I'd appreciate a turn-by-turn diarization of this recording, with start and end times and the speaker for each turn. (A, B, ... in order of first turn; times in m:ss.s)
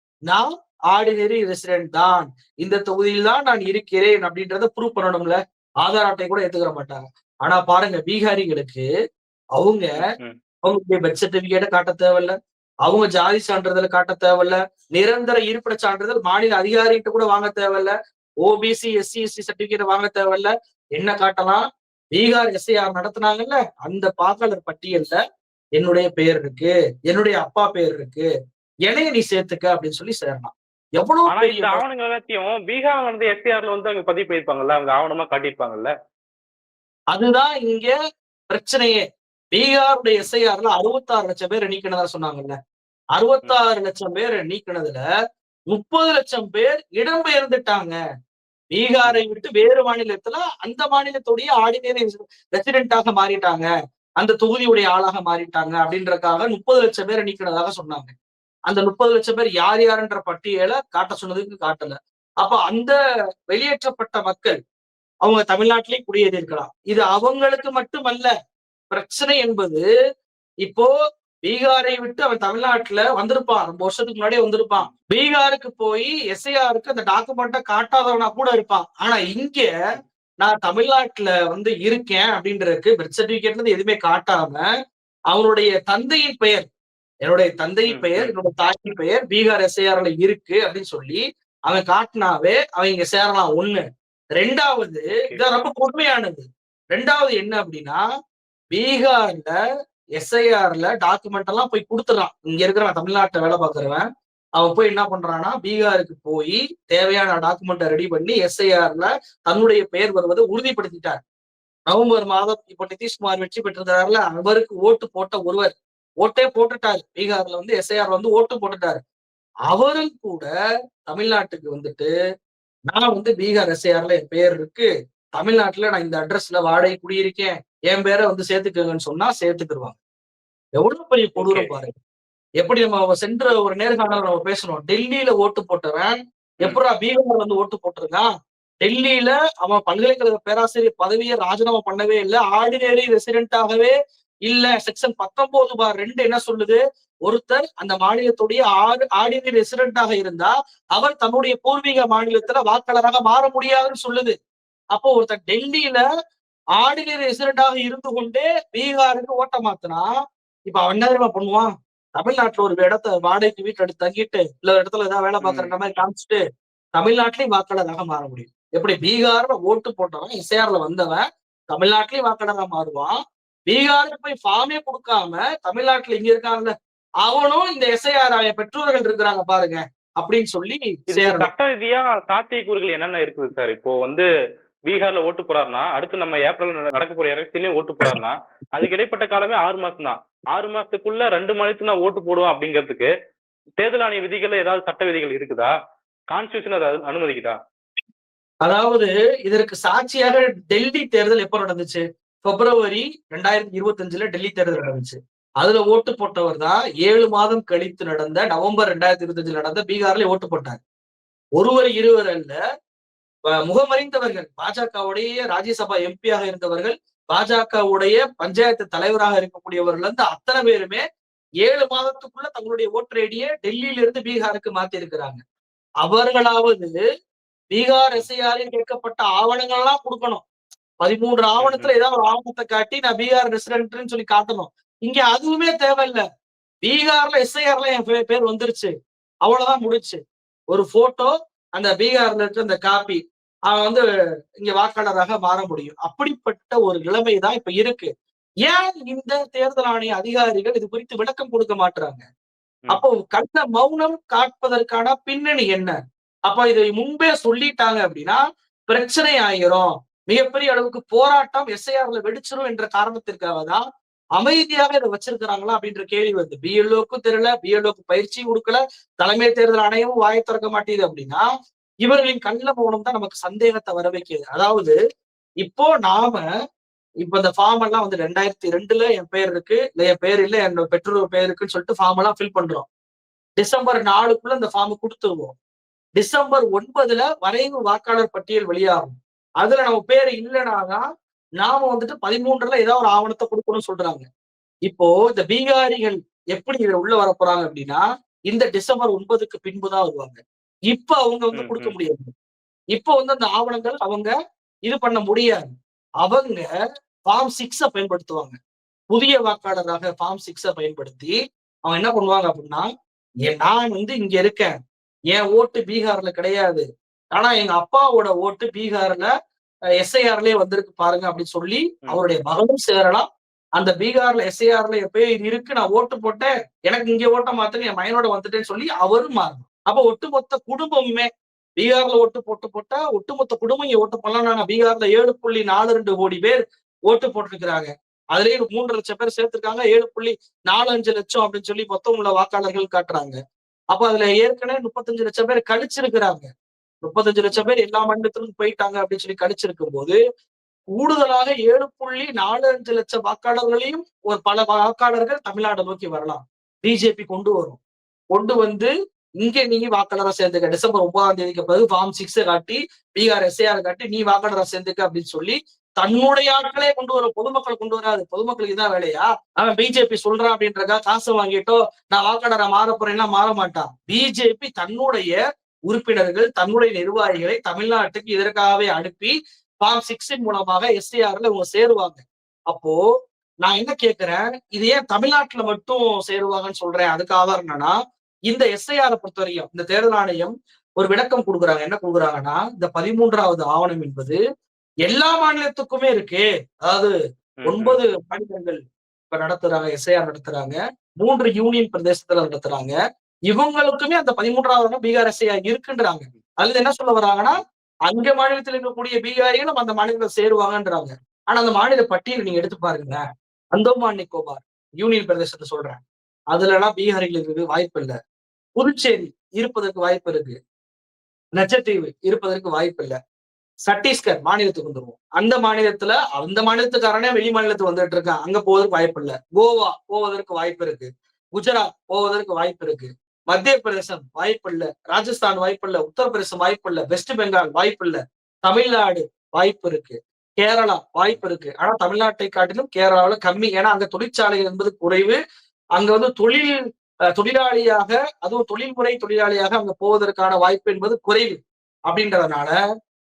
0:00.3-0:08.9 A
0:09.6-0:10.0 A
0:10.0-0:10.4 B
0:10.6-0:17.9 A
0:18.4-0:25.2 A
0:25.8-0:28.3 A
0:28.9-0:31.8 A
0:31.3-0:35.9 B
0:37.1-0:37.9 A
0:38.5-0:42.6 A
0:43.2-0:45.0 A
0:45.7-0:47.9 A
0:48.7-0:53.7 A
0:54.2-0:58.1 A
0:58.7-1:03.0 A
1:03.5-1:04.6 A
1:05.2-1:08.3 A
1:08.9-1:09.8 A
1:10.6-1:10.9 A
1:11.4-1:19.7 A
1:20.4-1:24.6 A
1:25.3-1:26.7 A
1:27.2-1:33.8 A
1:27.9-1:28.3 B
1:34.4-1:38.0 A
1:35.1-1:35.4 B
1:38.7-1:39.5 A
1:40.2-1:44.0 A
1:44.6-1:51.2 A
1:51.9-1:59.0 A
1:59.7-2:00.5 A
2:01.1-2:02.1 A
2:02.9-2:10.0 A
2:10.8-2:11.9 A
2:11.4-2:11.7 B
2:12.6-2:18.3 A
2:18.8-2:23.9 A
2:24.5-2:34.4 A
2:34.9-2:36.0 A
2:36.8-2:40.1 A
2:40.7-2:46.4 A
2:45.4-2:45.7 B
2:47.0-2:53.2 A
2:53.7-2:56.7 A
2:57.2-3:01.5 A
3:01.1-3:04.2 B
3:04.9-3:13.1 B
3:13.8-3:15.7 B
3:16.3-3:17.6 B
3:18.6-3:30.8 A
3:31.6-3:32.6 A
3:33.7-3:41.0 A
3:41.6-3:45.4 A
3:46.0-3:46.9 A
3:47.7-3:50.4 A
3:51.0-3:56.2 A
3:51.6-3:51.9 B
3:56.8-3:58.9 A
3:59.4-4:00.2 A
4:00.7-4:03.2 A
4:03.7-4:04.0 A
4:04.6-4:08.1 A
4:08.6-4:12.2 A
4:12.9-4:15.9 A
4:16.5-4:23.8 A
4:24.4-4:31.4 A
4:32.0-4:35.0 A
4:35.6-4:36.4 A
4:37.2-4:42.9 A
4:43.6-4:45.6 A
4:46.2-4:51.0 A
4:51.6-4:54.2 A
4:54.9-5:00.4 A
5:00.9-5:02.3 A
5:01.5-5:02.0 B
5:02.9-5:04.3 A
5:04.9-5:05.7 A
5:06.2-5:06.7 A
5:07.3-5:08.6 A
5:09.1-5:11.3 A
5:11.9-5:12.9 A
5:13.5-5:14.7 A
5:15.3-5:16.8 A
5:17.4-5:19.3 A
5:20.0-5:23.3 A
5:23.8-5:31.3 A
5:31.8-5:43.4 A
5:43.9-5:46.5 A
5:47.0-5:50.2 A
5:51.0-5:57.8 A
5:58.3-6:15.4 A
6:15.9-6:23.0 A
6:23.6-6:27.9 A
6:28.5-6:34.4 A
6:35.0-6:37.1 A
6:37.6-6:38.0 B
6:37.6-6:38.8 A
6:39.3-6:42.9 A
6:43.5-6:47.6 A
6:48.1-6:53.2 A
6:53.7-6:56.0 A
6:56.5-6:58.1 A
6:58.8-7:00.6 A
7:01.6-7:03.2 A
7:03.8-7:25.4 A
7:26.0-7:26.7 A
7:27.4-7:32.7 A